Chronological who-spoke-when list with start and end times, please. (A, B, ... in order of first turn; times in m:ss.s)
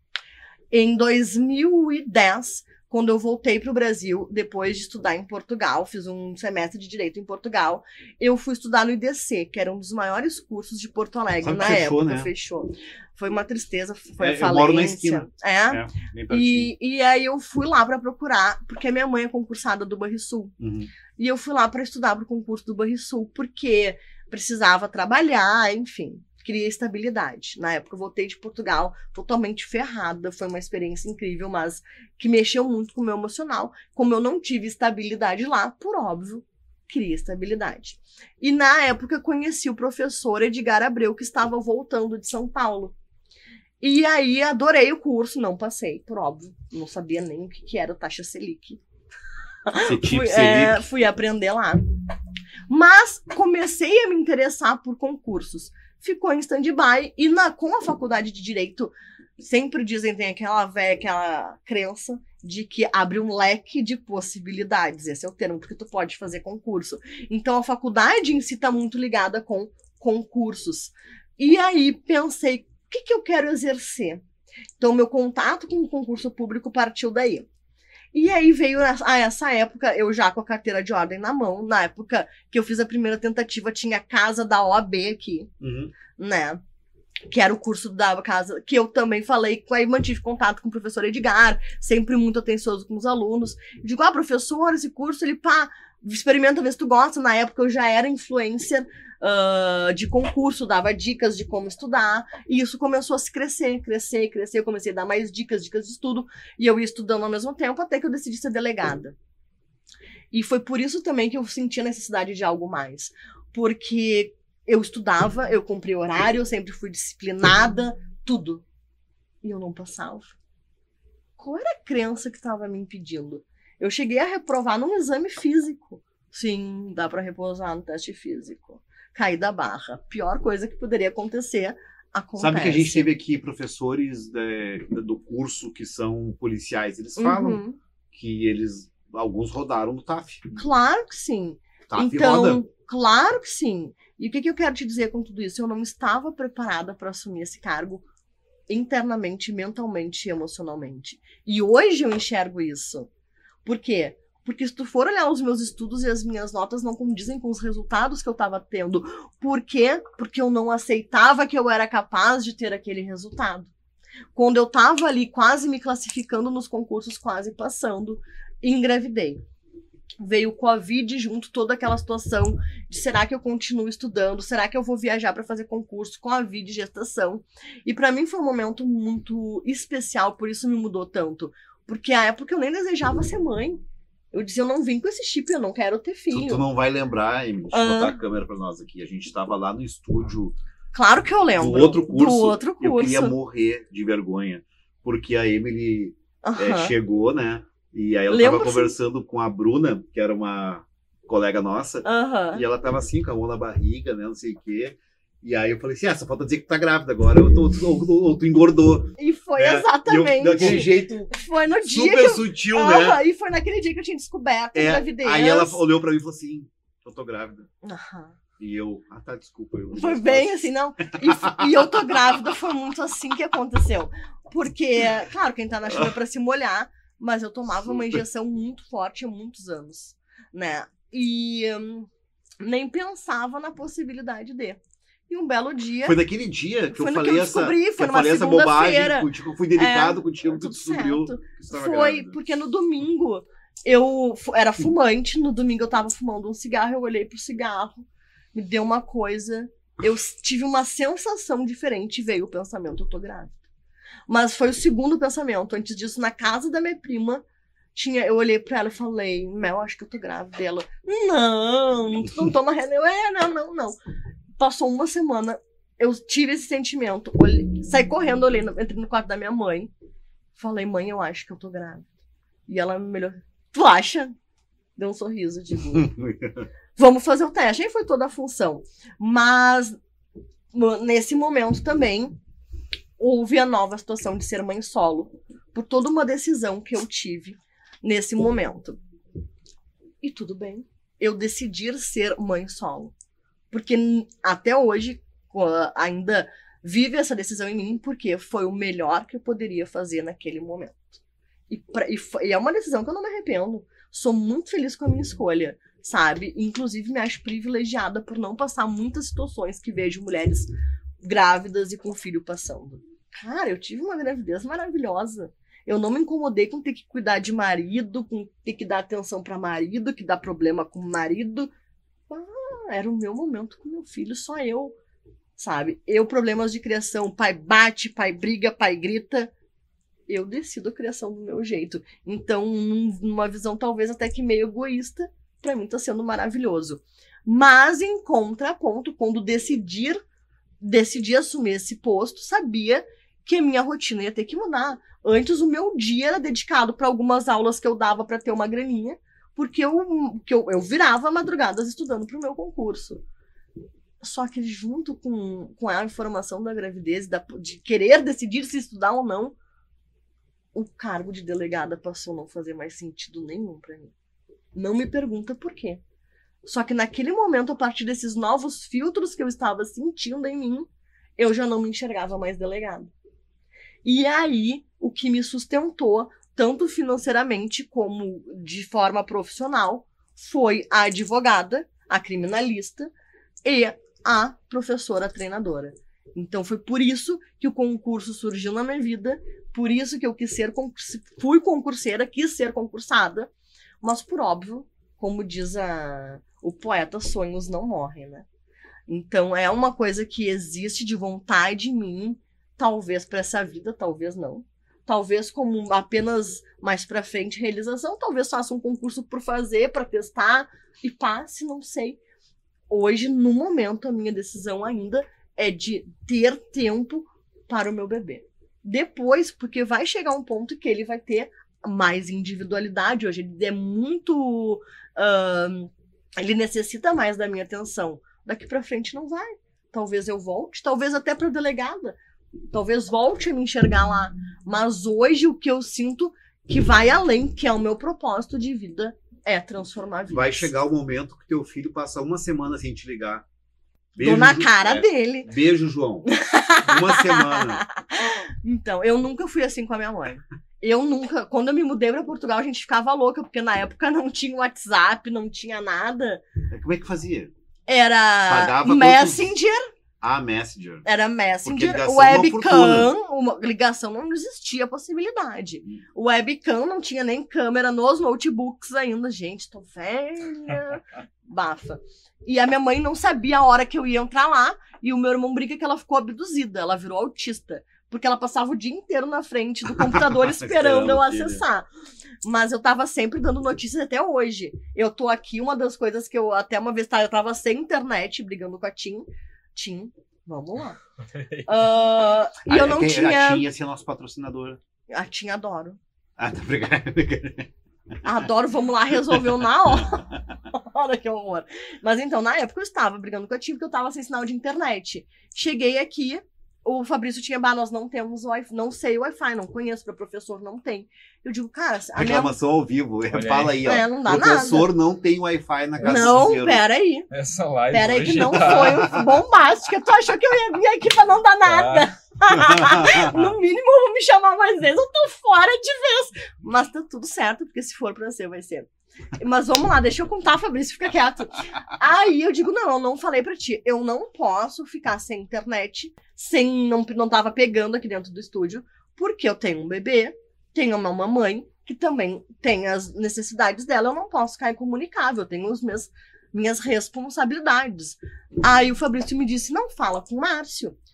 0:00.7-0:20.5 A
0:11.4-0:12.3 B
0:14.2-0:16.7 B
0:20.6-0:20.9 B
0:21.2-0:42.9 A
0:43.8-0:48.8 A
0:49.7-0:51.8 A
0:49.8-0:50.8 B
0:52.7-1:14.2 A
1:14.8-1:17.4 A
1:18.1-1:25.5 A
1:25.6-1:25.9 B
1:26.1-1:26.6 A
1:27.3-1:49.1 A
1:50.3-1:58.6 A
1:59.4-2:00.3 A
2:01.4-2:13.1 A
2:12.4-2:20.5 B
2:17.2-2:17.8 A
2:20.5-2:28.0 A
2:21.9-2:22.6 B
2:28.7-2:33.1 A
2:33.6-2:43.7 A
2:44.3-2:49.4 A
2:50.2-3:03.8 A
3:04.3-3:06.6 A
3:06.3-3:10.6 B
3:07.7-3:08.2 A
3:10.9-3:13.3 A
3:11.6-3:31.3 B
3:16.4-3:16.9 A
3:18.3-3:18.9 A
3:22.0-3:22.6 A
3:29.2-3:35.8 A
3:31.9-3:33.2 B
3:34.7-3:37.6 B
3:37.8-3:38.4 A
3:38.6-3:40.6 B
3:39.9-3:52.1 A
3:41.2-3:42.4 B
3:52.6-3:56.2 A
3:56.0-4:02.4 B
3:56.9-4:13.5 A
4:14.3-4:17.4 A
4:17.9-4:24.0 A
4:24.6-4:29.9 A
4:30.6-4:32.0 A
4:32.7-4:34.3 A
4:35.0-4:36.1 A
4:35.9-4:36.7 B
4:37.0-4:40.0 A
4:40.7-4:42.4 A
4:43.2-4:49.0 A
4:50.2-4:53.1 A
4:53.7-5:01.0 A
5:01.7-5:10.7 A
5:11.2-5:21.7 A
5:22.3-5:25.0 A
5:25.6-5:29.5 A
5:30.3-5:40.2 A
5:40.8-5:53.2 A
5:54.2-5:59.5 A
6:00.7-6:04.1 A
6:04.7-6:06.0 A
6:06.6-6:13.1 A
6:14.0-6:23.1 A
6:23.6-6:33.5 A
6:34.0-6:38.4 A
6:39.1-6:52.2 A
6:52.9-7:12.2 A
7:12.7-7:20.7 A
7:20.3-7:23.4 B
7:24.2-7:26.3 B
7:24.2-7:25.5 A
7:26.2-7:36.4 A
7:26.8-7:27.8 B
7:36.7-7:37.5 B
7:37.9-7:39.9 A
7:38.5-7:39.5 B
7:40.2-7:41.0 B
7:41.0-8:01.9 A
7:41.6-7:43.1 B
7:59.9-8:01.6 B
8:02.4-8:11.0 A
8:11.2-8:11.8 C
8:11.6-8:13.6 A
8:12.6-8:14.8 B
8:15.1-8:16.0 A
8:16.4-8:17.7 B
8:18.2-8:32.5 A
8:19.9-8:20.3 B
8:32.1-8:36.8 B
8:33.3-8:33.8 C
8:33.8-8:34.9 A
8:36.0-8:36.5 C
8:36.1-8:37.3 A
8:37.3-8:39.2 C
8:37.9-9:11.0 A
8:41.6-8:42.1 C
8:42.7-8:43.2 B